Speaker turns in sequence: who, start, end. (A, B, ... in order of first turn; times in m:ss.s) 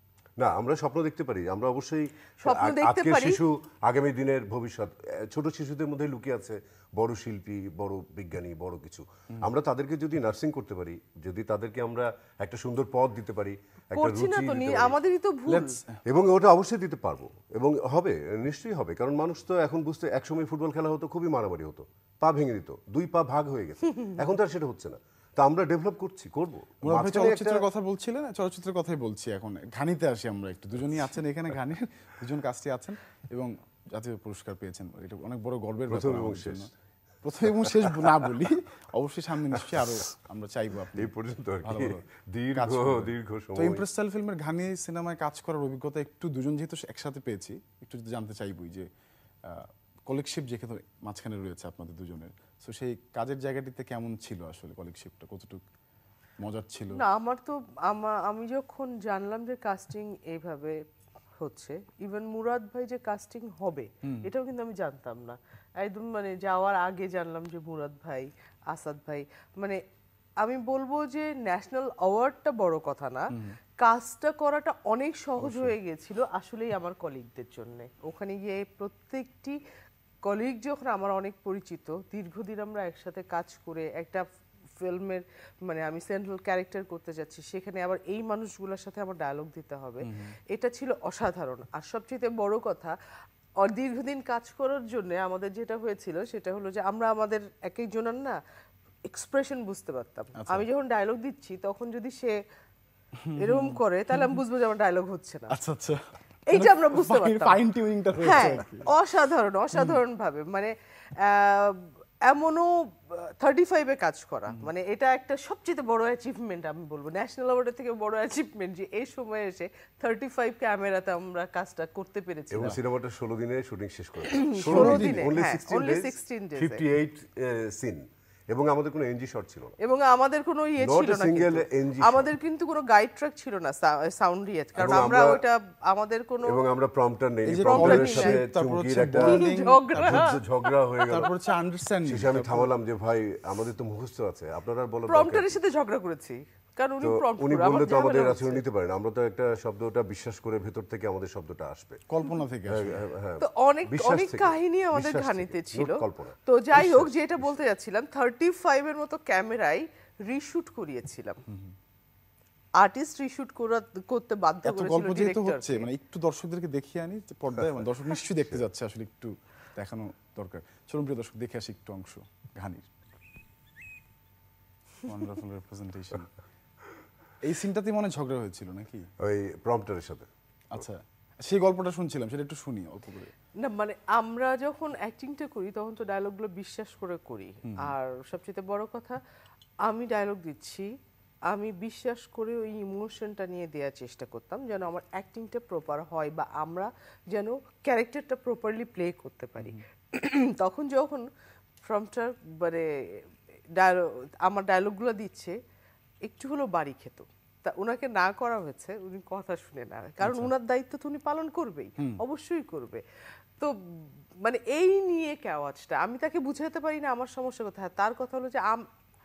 0:00.4-0:14.9 A
0:02.4-0:03.4 B
0:13.9-0:15.8 B
0:15.5-0:16.0 C
0:16.0-0:27.6 A
0:26.8-0:36.7 C
0:35.9-0:36.7 A
0:37.2-0:41.1 C
0:39.6-0:40.0 A
0:41.0-0:43.8 A
0:41.6-0:48.9 C
0:49.4-0:55.6 C
0:56.4-0:57.0 C
0:56.9-1:00.8 B
1:01.4-1:09.8 B
1:04.0-1:04.3 C
1:10.4-1:19.6 B
1:20.2-1:24.2 B
1:24.8-1:32.9 B
1:30.0-1:30.4 C
1:33.6-1:38.4 B
1:39.1-1:42.4 B
1:40.4-1:40.6 C
1:43.2-1:44.4 C
1:43.3-1:45.5 B
1:45.5-1:48.9 C
1:46.5-1:47.6 B
1:48.2-2:02.8 B
1:49.7-1:50.0 C
2:02.5-2:09.7 A
2:04.5-2:06.8 B
2:04.6-2:05.3 C
2:09.8-2:16.6 B
2:10.8-2:12.3 A
2:14.8-2:15.4 A
2:14.8-2:15.1 C
2:16.5-2:21.3 A
2:17.4-2:20.4 C
2:17.6-2:18.4 B
2:19.2-2:20.4 B
2:21.0-2:22.7 C
2:22.0-2:25.5 A
2:25.1-2:28.6 B
2:27.0-2:32.0 A
2:32.1-2:33.0 C
2:32.7-2:37.1 A
2:33.4-2:41.4 B
2:41.5-2:41.7 C
2:42.8-2:45.9 B
2:44.6-2:52.9 C
2:55.0-2:56.3 C
2:57.4-2:59.1 C
2:59.2-3:00.8 A
3:00.7-3:03.3 C
3:03.6-3:09.2 B
3:07.6-3:07.9 C
3:09.8-3:10.9 B
3:11.5-3:21.2 B
3:19.6-3:19.8 C
3:21.8-3:23.2 B
3:23.7-3:25.6 B
3:26.2-3:33.0 B
3:30.2-3:30.5 C
3:34.4-3:38.9 B